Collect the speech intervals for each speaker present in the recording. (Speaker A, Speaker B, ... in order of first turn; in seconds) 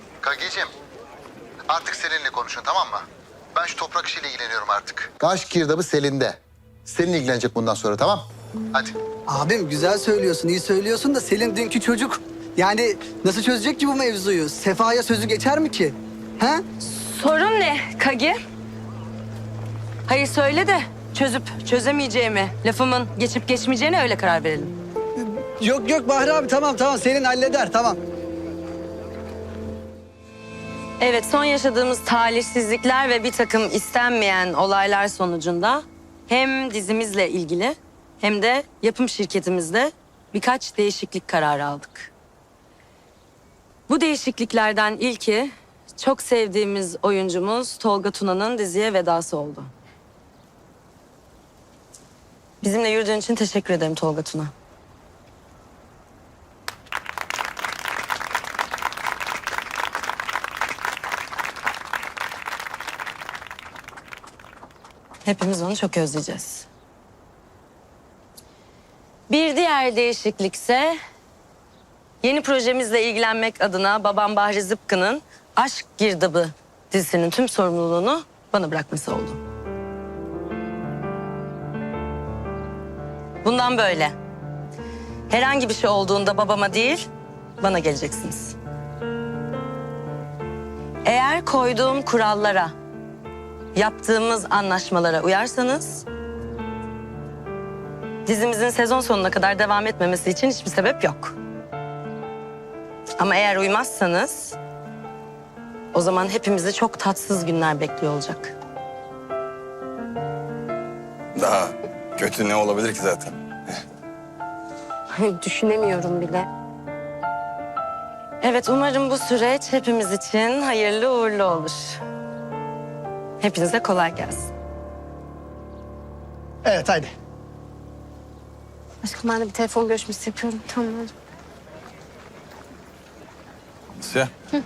Speaker A: 0.2-0.7, 1.7-8.9
Speaker B: 9.3-16.6, 25.2-28.0, 126.6-127.1
Speaker C: 16.8-18.4, 20.1-24.7, 31.0-42.1, 43.9-49.7, 52.6-54.5, 65.2-66.7, 69.3-71.0, 72.2-79.4, 83.4-84.2, 85.3-87.1, 87.6-88.5, 91.0-92.7, 93.7-96.0, 98.2-101.3, 103.2-104.6, 105.9-108.5, 118.4-122.0, 123.4-124.5
Speaker D: 111.3-113.8, 134.0-134.3
Speaker E: 115.1-116.5, 129.0-131.1